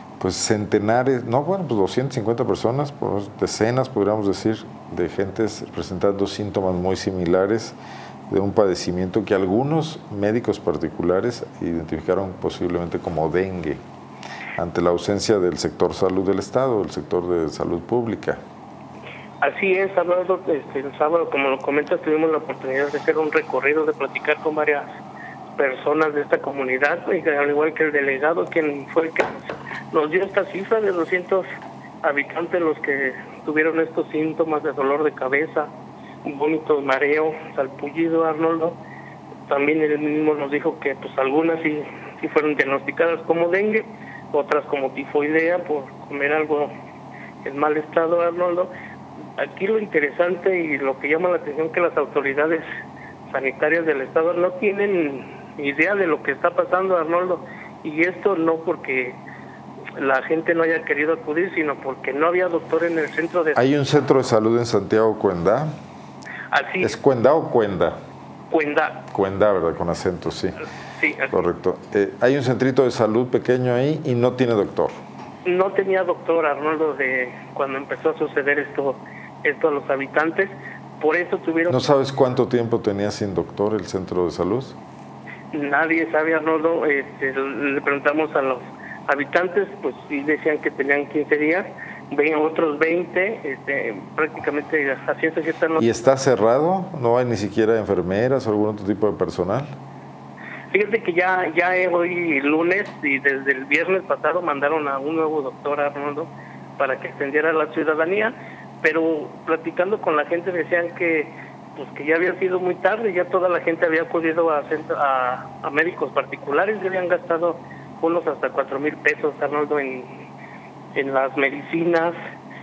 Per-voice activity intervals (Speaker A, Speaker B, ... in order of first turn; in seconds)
Speaker A: 0.2-7.8, 8.3-13.8, 14.6-18.4, 63.5-65.7, 66.8-68.0, 69.1-70.6, 71.3-75.0, 81.7-84.8, 95.8-99.7
Speaker B: 19.4-24.8, 25.6-31.4, 32.0-35.7, 36.2-38.8, 39.5-46.7, 47.4-48.7, 49.4-52.6, 53.3-59.2, 60.0-63.6, 66.5-67.0, 68.5-69.0, 71.0-71.4, 75.5-81.8, 85.5-95.9, 100.7-120.2, 121.0-122.2